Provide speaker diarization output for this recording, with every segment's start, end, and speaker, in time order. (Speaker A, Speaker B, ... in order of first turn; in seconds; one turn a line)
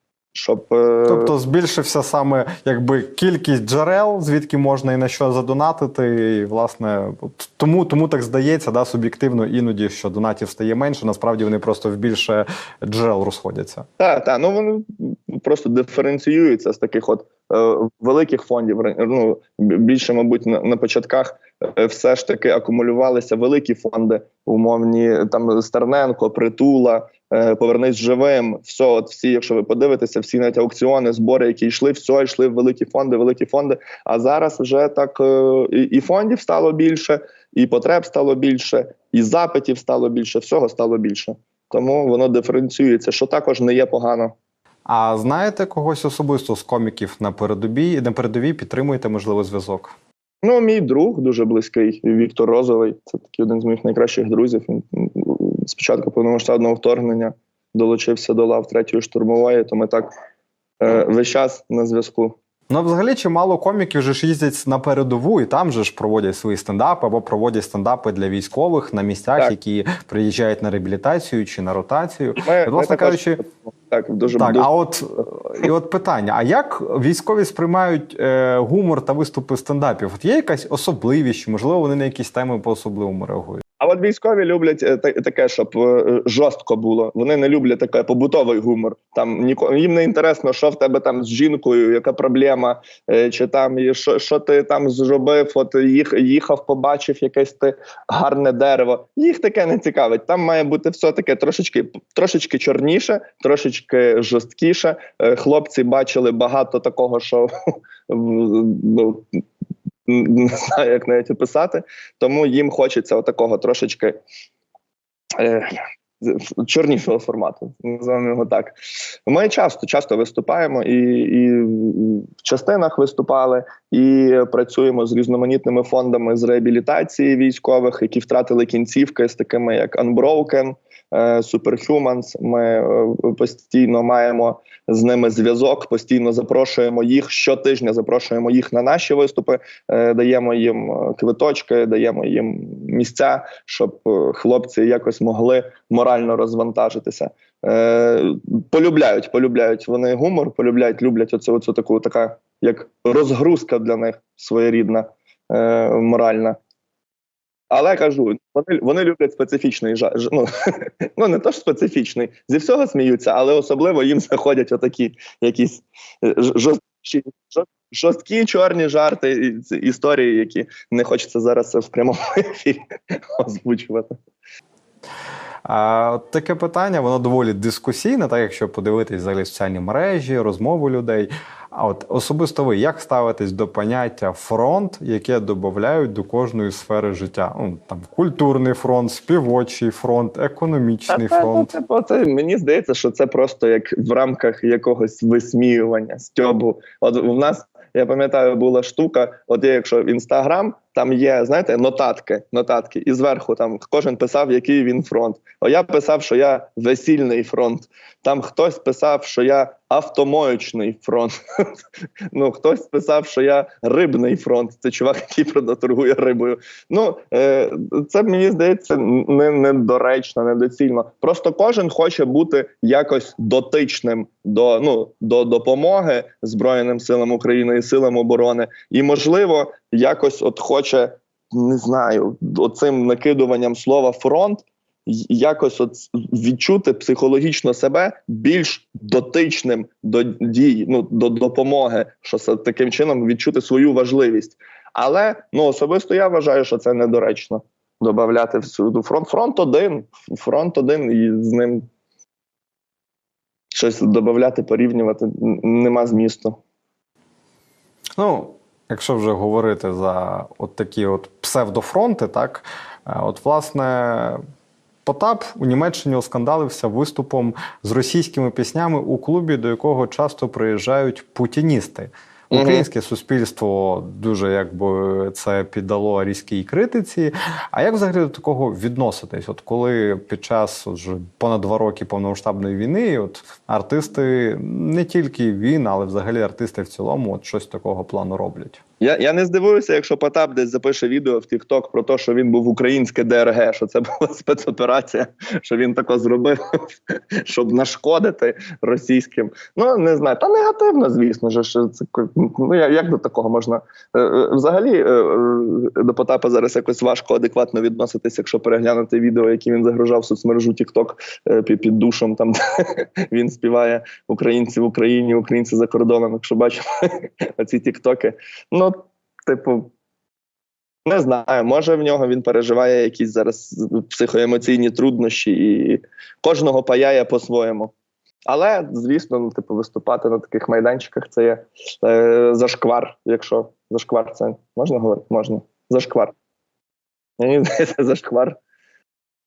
Speaker A: 0.3-1.3
Speaker B: 1.1-13.9
Speaker A: 14.0-44.3
Speaker B: 44.9-49.9
Speaker A: 50.4-60.1
Speaker A: 60.8-62.4
Speaker B: 62.7-73.4
Speaker A: 72.4-74.7
Speaker B: 74.3-83.6
Speaker A: 83.8-107.5
Speaker A: 108.1-109.4
Speaker A: 110.1-114.2
Speaker A: 115.4-156.6
Speaker A: 157.7-174.2
Speaker B: 175.6-191.7
Speaker A: 191.1-211.7
Speaker A: 212.3-251.8
Speaker A: 253.7-256.6
Speaker B: 258.1-264.4
Speaker B: 265.0-288.8
Speaker A: 272.5-272.9
Speaker A: 289.0-319.9
Speaker A: 321.1-327.9
Speaker A: 328.5-336.3
Speaker A: 337.4-338.6